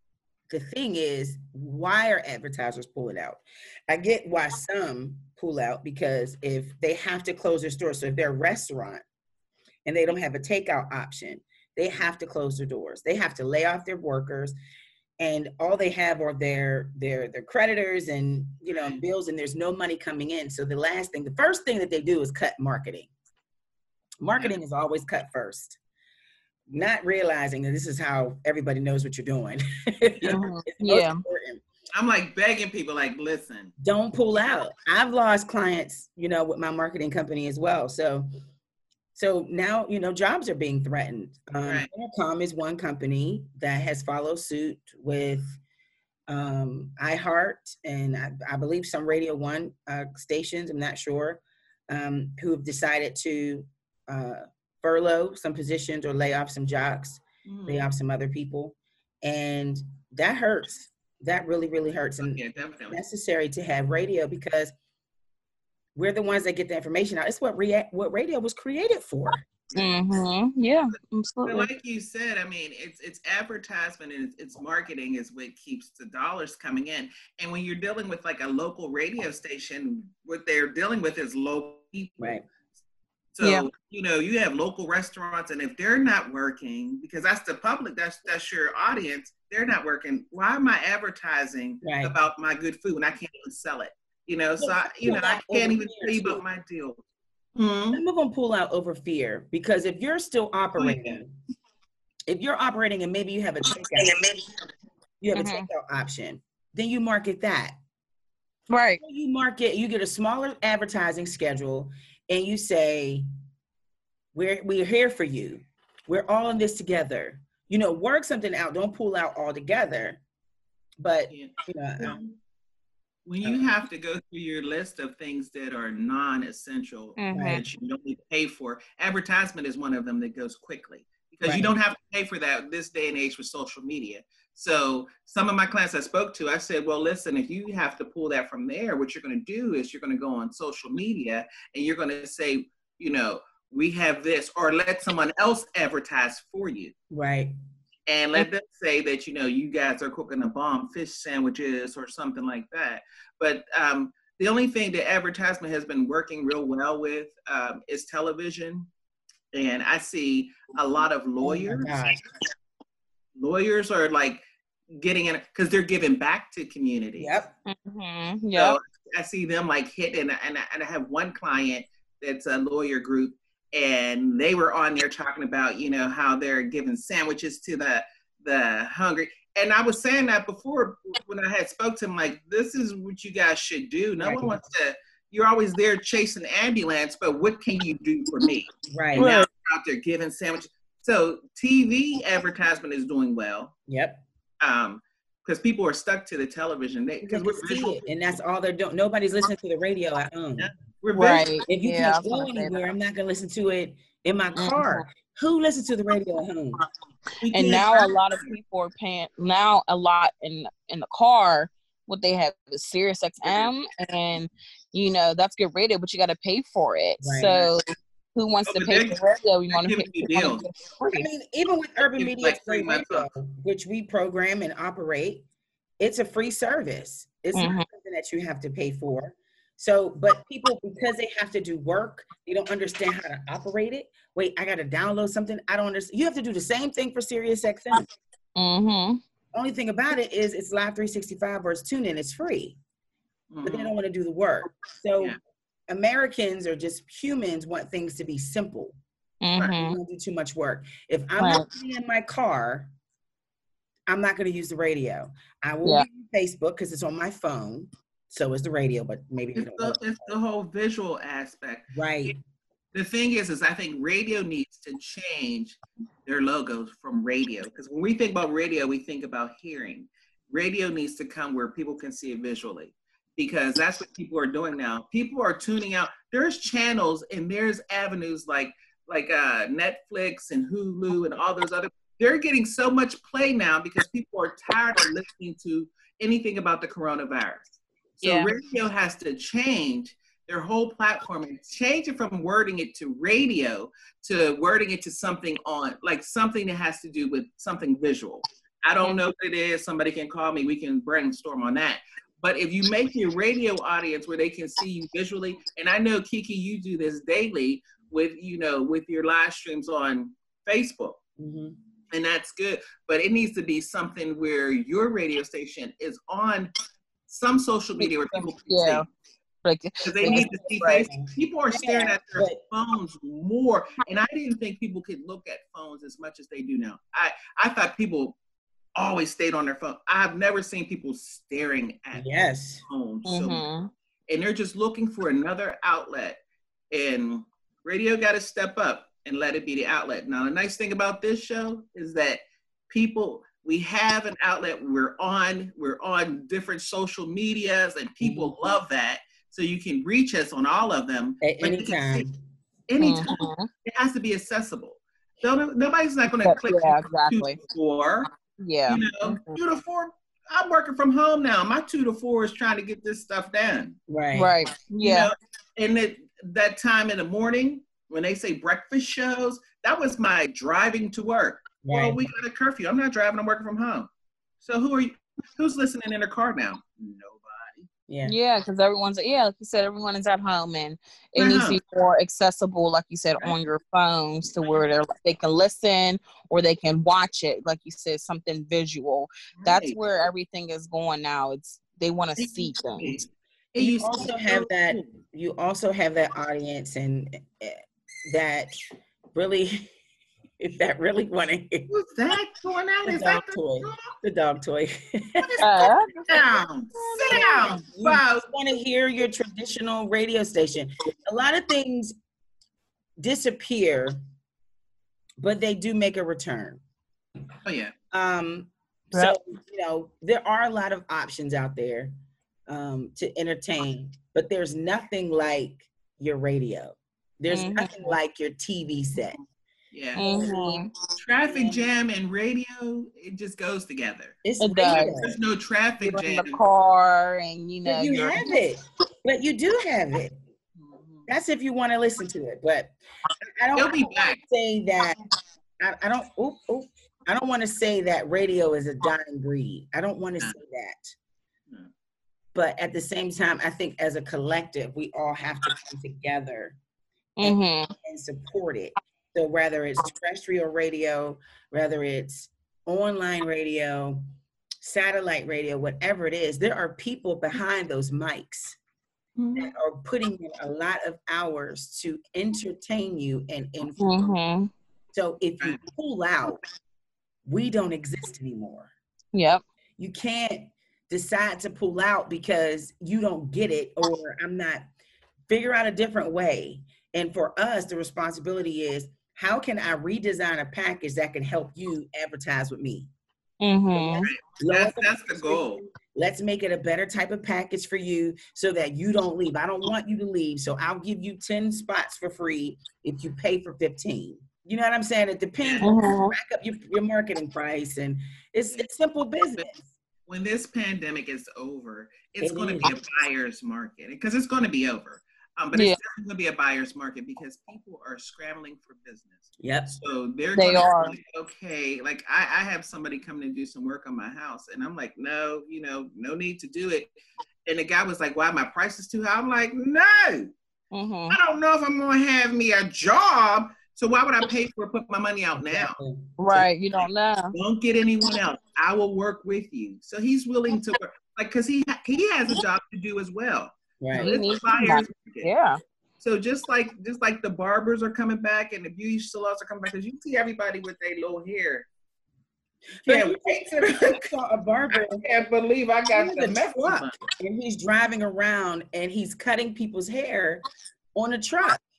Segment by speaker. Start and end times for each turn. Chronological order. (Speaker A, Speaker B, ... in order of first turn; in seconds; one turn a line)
Speaker A: 0.5-9.0
Speaker A: 9.8-14.5
Speaker A: 15.2-23.1
Speaker B: 18.7-19.0
Speaker A: 24.2-25.8
Speaker A: 26.7-31.6
Speaker C: 30.2-31.2
Speaker B: 31.9-33.7
Speaker A: 33.8-38.3
Speaker A: 39.1-45.6
Speaker B: 41.6-41.9
Speaker A: 46.3-64.7
Speaker B: 57.5-57.9
Speaker B: 62.2-63.0
Speaker A: 66.0-69.4
Speaker B: 69.7-70.0
Speaker C: 69.8-71.7
Speaker B: 71.5-82.3
Speaker B: 83.4-97.0
Speaker C: 83.4-83.7
Speaker A: 91.8-92.1
Speaker A: 94.6-96.4
Speaker B: 97.6-98.0
Speaker A: 97.9-101.3
Speaker B: 100.8-101.2
Speaker A: 102.3-104.2
Speaker A: 105.2-107.8
Speaker C: 105.3-105.7
Speaker C: 108.7-109.0
Speaker A: 109.0-113.2
Speaker A: 114.3-120.2
Speaker A: 121.0-122.2
Speaker B: 121.3-122.4
Speaker B: 123.3-146.9
Speaker C: 127.2-127.6
Speaker A: 127.3-127.6
Speaker A: 131.4-131.7
Speaker A: 147.1-147.5
Speaker B: 148.1-158.9
Speaker B: 159.5-162.0
Speaker A: 161.4-162.2
Speaker B: 163.4-164.4
Speaker B: 165.0-167.3
Speaker A: 167.2-167.5
Speaker C: 167.7-168.8
Speaker B: 168.5-193.7
Speaker A: 184.2-184.6
Speaker A: 188.9-189.4
Speaker C: 189.2-189.4
Speaker A: 193.9-194.2
Speaker B: 194.6-198.0
Speaker A: 197.2-200.7
Speaker B: 200.6-201.6
Speaker C: 201.1-202.9
Speaker A: 201.7-206.8
Speaker C: 204.6-205.0
Speaker B: 207.4-208.5
Speaker C: 207.5-217.8
Speaker B: 213.4-213.7
Speaker A: 217.2-217.7
Speaker C: 218.3-221.3
Speaker B: 218.7-219.2
Speaker B: 219.7-220.7
Speaker A: 221.1-225.4
Speaker B: 222.2-223.3
Speaker A: 226.0-238.1
Speaker C: 227.5-227.9
Speaker C: 238.6-239.2
Speaker A: 239.5-242.8
Speaker B: 243.5-243.9
Speaker A: 243.6-245.4
Speaker A: 245.9-249.0
Speaker C: 249.4-250.0
Speaker A: 249.7-252.9
Speaker C: 251.4-251.7
Speaker A: 254.1-260.3
Speaker B: 259.6-262.3
Speaker A: 261.9-262.4
Speaker B: 262.9-311.2
Speaker C: 288.2-288.5
Speaker A: 311.4-311.8
Speaker B: 312.1-316.7
Speaker B: 317.3-319.1
Speaker C: 318.7-319.1
Speaker C: 319.6-321.1
Speaker B: 320.0-328.4
Speaker A: 320.2-322.6
Speaker B: 329.0-332.3
Speaker A: 332.1-332.8
Speaker B: 332.9-333.6
Speaker C: 333.3-333.9
Speaker B: 334.3-336.4
Speaker B: 336.9-352.3
Speaker A: 348.2-348.6
Speaker A: 351.4-352.4
Speaker B: 352.9-358.3
Speaker C: 353.0-353.7
Speaker C: 356.4-357.6
Speaker C: 358.6-359.6
Speaker B: 358.9-364.0
Speaker A: 364.1-364.5
Speaker C: 364.4-365.3
Speaker B: 365.0-374.1
Speaker A: 371.8-372.2
Speaker B: 374.6-377.9
Speaker A: 378.1-378.4
Speaker C: 378.3-393.2
Speaker B: 381.4-381.8
Speaker B: 389.6-390.0
Speaker B: 392.4-395.1
Speaker A: 393.8-398.7
Speaker A: 399.3-399.9
Speaker A: 400.6-401.9
Speaker B: 401.9-404.1
Speaker A: 403.1-405.6
Speaker B: 405.4-408.4
Speaker C: 405.6-407.5
Speaker A: 407.3-412.1
Speaker A: 413.2-414.2
Speaker A: 415.4-416.8
Speaker B: 417.6-417.9
Speaker A: 418.1-422.1
Speaker A: 422.7-429.4
Speaker C: 427.5-428.1
Speaker B: 429.9-430.3
Speaker C: 430.1-430.9
Speaker A: 430.2-430.8
Speaker B: 431.1-436.6
Speaker A: 431.5-431.9
Speaker A: 434.4-435.4
Speaker C: 434.6-435.1
Speaker C: 436.0-438.5
Speaker A: 437.8-440.4
Speaker B: 440.8-441.3
Speaker A: 441.3-445.2
Speaker B: 443.8-444.4
Speaker A: 445.8-451.1
Speaker A: 452.5-456.8
Speaker C: 457.4-457.9
Speaker A: 457.4-464.2
Speaker A: 464.8-468.8
Speaker B: 469.4-469.7
Speaker A: 469.6-474.2
Speaker C: 474.0-474.7
Speaker A: 475.1-476.6
Speaker A: 477.4-478.9
Speaker C: 479.3-479.6
Speaker A: 480.0-484.9
Speaker A: 485.5-493.1
Speaker C: 493.6-494.3
Speaker A: 494.0-509.9
Speaker B: 494.2-495.8
Speaker B: 505.6-505.9
Speaker C: 505.8-506.4
Speaker B: 510.3-527.1
Speaker A: 512.4-512.9
Speaker C: 515.7-516.0
Speaker A: 519.6-520.0
Speaker C: 520.5-521.2
Speaker B: 527.7-530.5
Speaker C: 530.9-531.4
Speaker B: 531.3-536.0
Speaker A: 535.6-536.6
Speaker C: 536.4-537.5
Speaker B: 537.5-545.5
Speaker A: 544.0-544.3
Speaker C: 544.1-545.8
Speaker B: 546.2-551.9
Speaker A: 553.0-555.2
Speaker B: 553.0-554.3
Speaker B: 554.9-557.2
Speaker A: 556.1-560.6
Speaker A: 561.1-561.8